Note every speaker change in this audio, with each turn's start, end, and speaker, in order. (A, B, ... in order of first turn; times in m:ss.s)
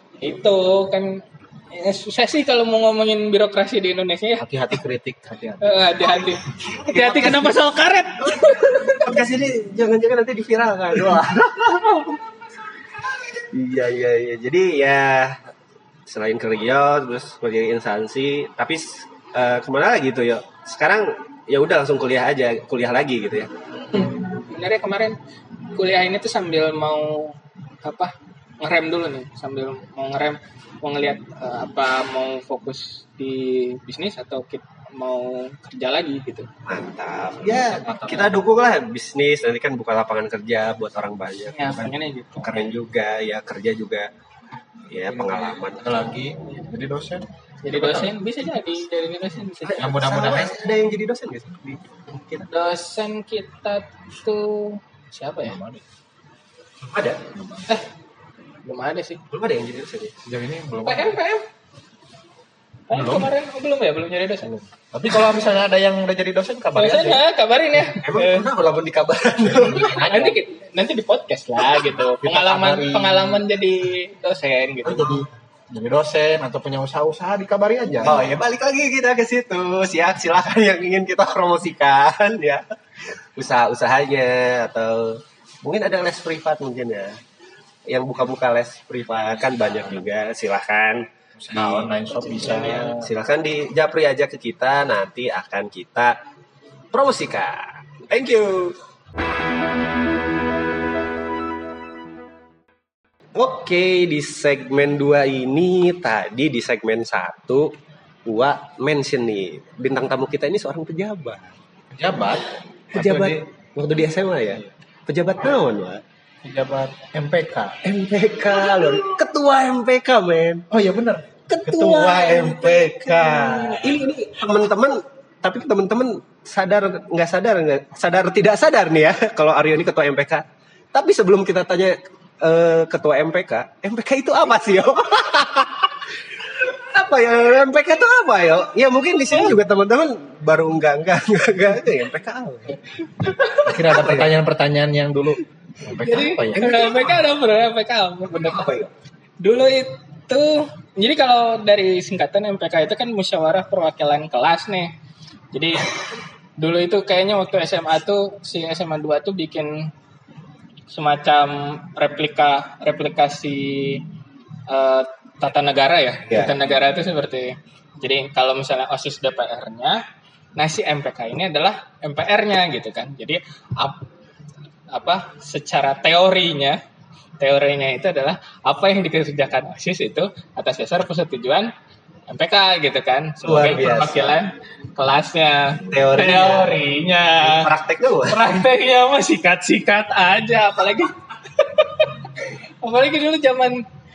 0:00.2-0:04.4 A
0:04.4-0:05.9 B
0:05.6-0:09.1 A
0:06.6-0:07.5 C
0:08.9-0:12.2 C
0:13.1-0:15.4 C
0:16.0-0:23.5 C
0:23.9-0:25.2 A
0:25.8-0:36.5 A
0:36.6-0:41.8 C
0:37.5-0:38.4 B
0:41.5-0:42.6 A
0:42.4-0:44.1 C
0:44.9-0:46.1 C
0:45.1-0:48.1 B
0:47.6-0:49.9 A
0:49.6-0:52.5 C
0:49.8-0:50.5 B
0:52.5-0:55.6 A
0:55.4-0:55.8 B
0:56.8-0:57.2 C
0:57.3-0:57.7 B
0:58.6-0:59.2 A
0:59.3-1:00.1 C
1:00.2-1:01.1 B
1:00.8-1:01.4 A
1:02.9-1:04.5 A
1:02.9-1:03.3 B
1:04.9-1:07.2 B
1:06.8-1:08.5 A
1:08.0-1:10.0 C
1:09.5-1:10.3 B
1:09.7-1:15.2 A
1:12.2-1:13.4 B
1:14.8-1:18.3 B
1:18.0-1:27.2 C
1:27.9-1:32.0 C
1:31.4-1:33.1 B
1:32.2-1:33.0 A
1:32.5-1:36.1 C
1:36.9-1:38.8 C
1:43.3-1:51.5 C
1:51.9-1:53.4 B
1:52.9-1:56.0 C
1:56.4-1:57.8 B
1:57.8-2:00.6 C
2:00.7-2:02.3 B
2:01.5-2:22.8 C
2:02.0-2:03.9 A
2:23.2-2:23.8 A
2:23.6-2:26.7 B
2:23.9-2:24.3 C
2:26.0-2:28.7 A
2:26.6-2:27.2 C
2:28.4-2:28.9 C
2:29.4-2:34.9 A
2:35.5-2:39.9 A
2:40.9-2:44.0 A
2:44.7-2:50.0 A
2:46.3-2:46.6 C
2:50.6-2:54.0 A
2:54.9-2:56.8 A
2:57.4-3:01.7 A
3:02.3-3:07.7 A
3:03.4-3:04.4 C
3:05.9-3:06.8 C
3:07.4-3:08.5 C
3:08.3-3:12.2 A
3:12.8-3:13.8 A